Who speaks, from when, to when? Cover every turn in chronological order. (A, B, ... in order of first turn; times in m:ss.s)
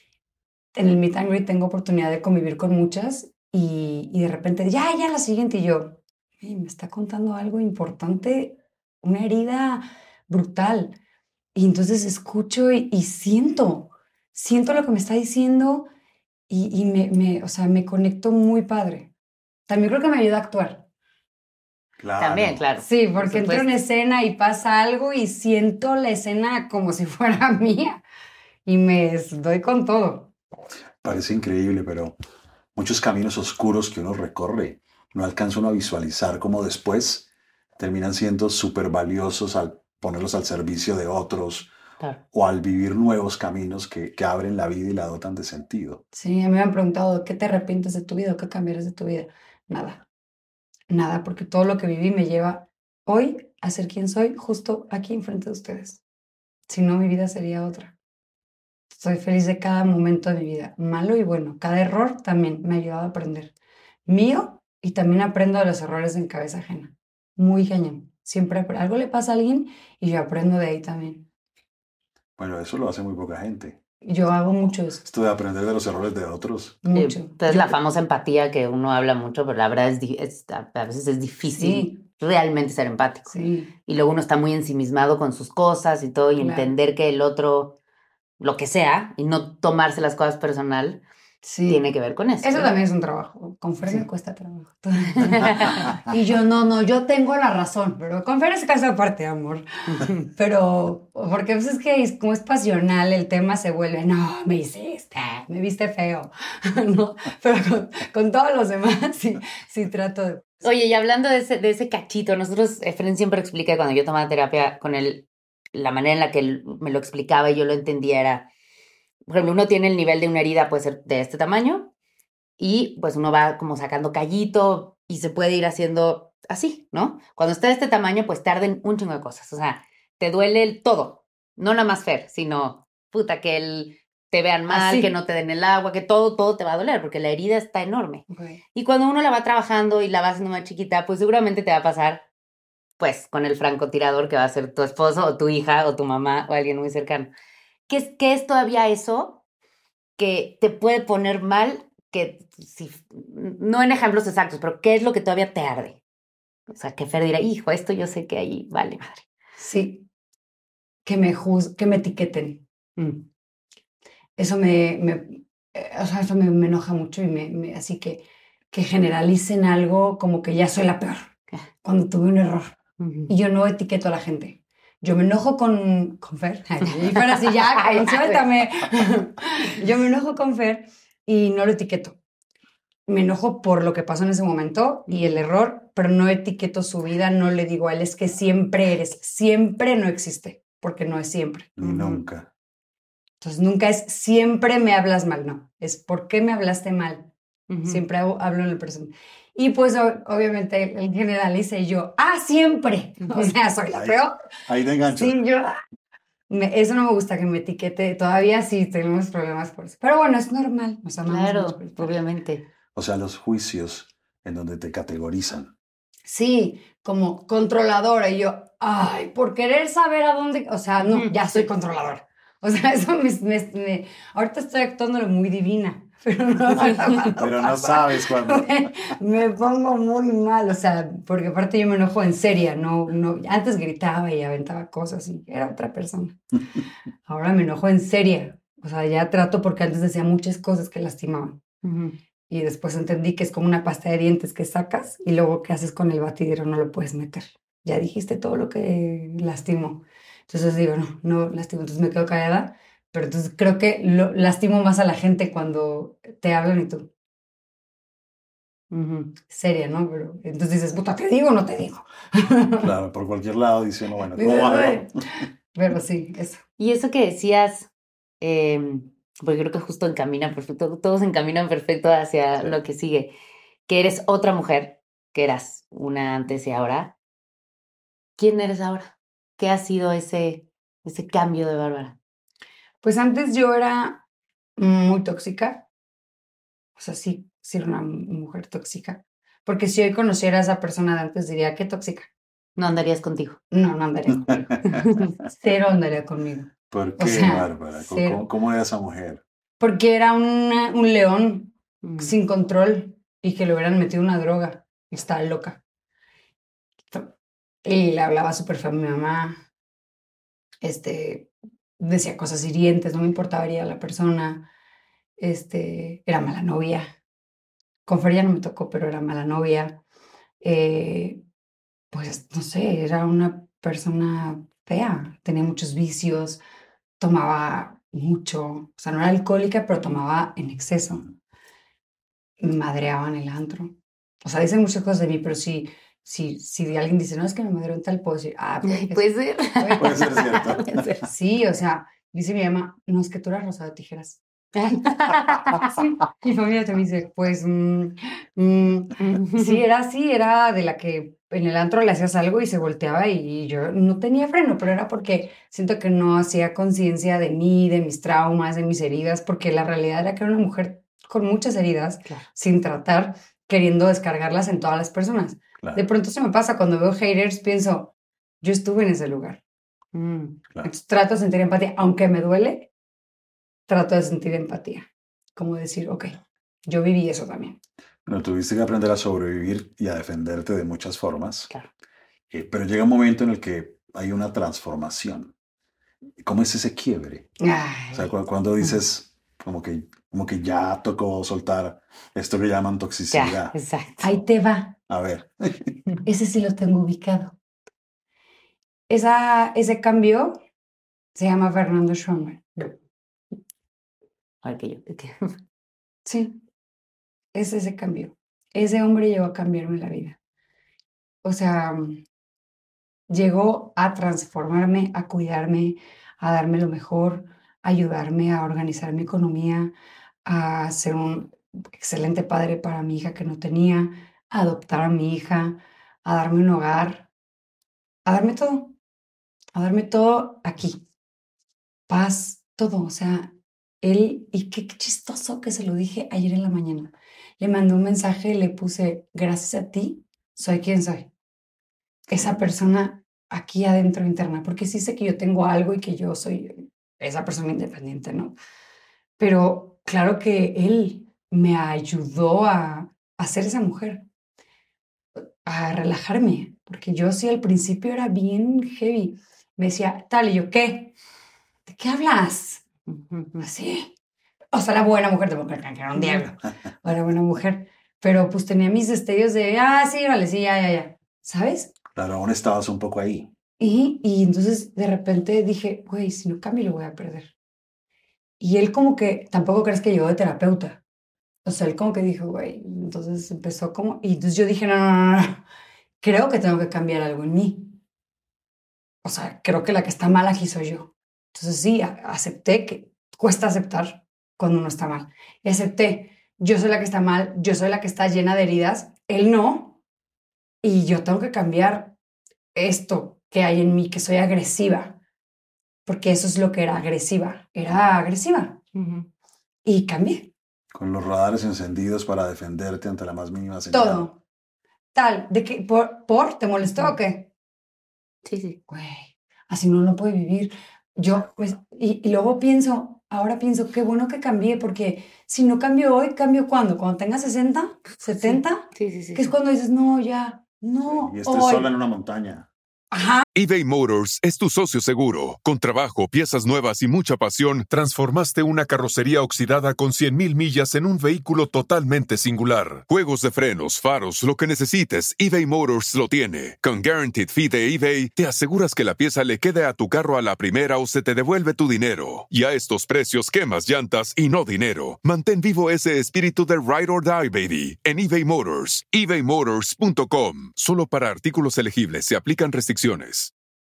0:00.7-0:10.9 A
0:11.5-0:15.9 A
0:16.5-0:19.1 A
0:19.7-0:20.8 A
0:22.0-0:22.6 B
0:22.2-0:23.8 C
0:22.8-0:28.0 A
0:28.6-0:30.3 A
0:31.0-0:32.2 B
0:32.7-0:37.3 B
0:37.8-0:41.7 B
0:42.3-0:46.0 B
0:46.1-0:50.0 A
0:50.9-0:56.0 A
0:56.7-0:57.9 A
0:58.9-1:03.5 A
1:04.0-1:11.3 A
1:12.4-1:13.8 B
1:14.0-1:15.0 A
1:15.0-1:16.8 B
1:16.8-1:17.7 A
1:16.9-1:23.3 C
1:21.5-1:22.0 A
1:23.3-1:23.7 A
1:23.8-1:27.8 C
1:26.4-1:26.7 A
1:28.4-1:31.0 C
1:31.4-1:31.8 A
1:31.7-1:32.7 C
1:32.4-1:50.5 A
1:35.2-1:35.9 C
1:39.9-1:40.3 C
1:50.6-1:58.5 C
1:59.2-2:01.9 C
2:02.6-2:22.2 C
2:14.7-2:15.1 A
2:18.3-2:18.6 A
2:23.0-2:27.3 C
2:27.9-2:29.4 C
2:30.2-2:36.0 C
2:36.7-2:39.2 C
2:39.6-2:40.1 A
2:41.0-2:42.6 A
2:43.0-2:43.2 C
2:44.4-2:51.3 A
2:51.8-2:52.8 A
2:53.0-2:53.3 C
2:53.3-3:02.2 A
2:57.0-2:58.4 C
3:03.1-3:11.7 A
3:05.1-3:05.4 C
3:11.8-3:12.5 B
3:11.8-3:12.2 C
3:13.4-3:17.3 A
3:17.7-3:18.0 C
3:17.8-3:24.4 A
3:23.2-3:23.5 C
3:23.9-3:25.4 B
3:25.0-3:25.7 A
3:26.5-3:32.2 A
3:31.2-3:32.6 C
3:32.9-3:35.7 B
3:36.2-3:56.4 A
3:41.0-3:41.3 C
3:47.4-3:49.1 B
3:57.2-4:01.6 A
4:01.8-4:02.2 C
4:02.5-4:17.1 A
4:18.9-4:19.3 C
4:19.5-4:22.9 A
4:22.8-4:25.1 B
4:24.4-4:26.6 A
4:26.8-4:27.9 C
4:28.4-4:33.3 C
4:33.9-4:37.2 C
4:38.4-4:42.2 C
4:43.0-4:44.2 A
4:44.8-4:45.8 A
4:47.0-4:52.3 A
4:52.8-4:53.6 C
4:53.7-4:54.7 A
4:54.3-4:55.2 B
4:55.4-4:58.5 A
4:56.9-4:59.4 B
4:59.8-5:05.8 A
5:02.0-5:02.3 C
5:07.8-5:09.6 A
5:10.8-5:14.6 A
5:15.4-5:17.1 A
5:18.0-5:20.0 A
5:20.6-5:21.4 A
5:22.1-5:26.6 A
5:27.2-5:31.2 A
5:29.9-5:30.2 C
5:32.6-5:44.4 A
5:38.8-5:41.2 C
5:40.0-5:40.8 B
5:44.7-5:45.9 C
5:45.0-6:09.6 A
5:49.2-5:49.8 C
6:10.1-6:10.6 C
6:10.8-6:12.9 A
6:13.9-6:17.8 A
6:18.2-6:21.7 B
6:22.5-6:25.5 B
6:26.4-6:27.5 B
6:27.6-6:28.3 A
6:28.1-6:33.8 B
6:33.3-6:34.2 C
6:34.2-6:35.0 A
6:35.1-6:35.9 B
6:36.2-6:37.6 A
6:39.1-6:40.6 A
6:41.3-6:42.9 A
6:44.6-6:45.5 C
6:46.2-6:46.6 A
6:47.5-6:50.4 A
6:51.4-6:52.2 A
6:53.3-6:59.9 A
7:00.4-7:07.3 A
7:08.2-7:08.9 A
7:09.7-7:11.0 A
7:12.1-7:21.3 A
7:22.3-7:28.6 A
7:29.4-7:34.2 A
7:35.6-7:41.1 A
7:41.8-7:42.8 A
7:43.1-7:43.6 C
7:43.6-7:44.1 A
7:44.7-7:51.9 A
7:46.2-7:46.4 C
7:52.1-7:53.5 B
7:53.8-7:57.5 A
7:58.6-8:01.0 A
8:01.6-8:05.6 A
8:06.2-8:08.0 A
8:09.2-8:20.0 A
8:20.8-8:22.1 A
8:22.7-8:25.2 A
8:26.0-8:28.8 A
8:28.9-8:29.3 C
8:29.8-8:30.5 A
8:30.9-8:34.3 B
8:33.9-8:34.4 A
8:35.1-8:37.5 A
8:38.4-8:38.8 C
8:38.9-8:51.9 A
8:48.3-8:49.5 C
8:51.0-8:52.7 B
8:53.1-8:53.5 A
8:53.6-9:23.5 D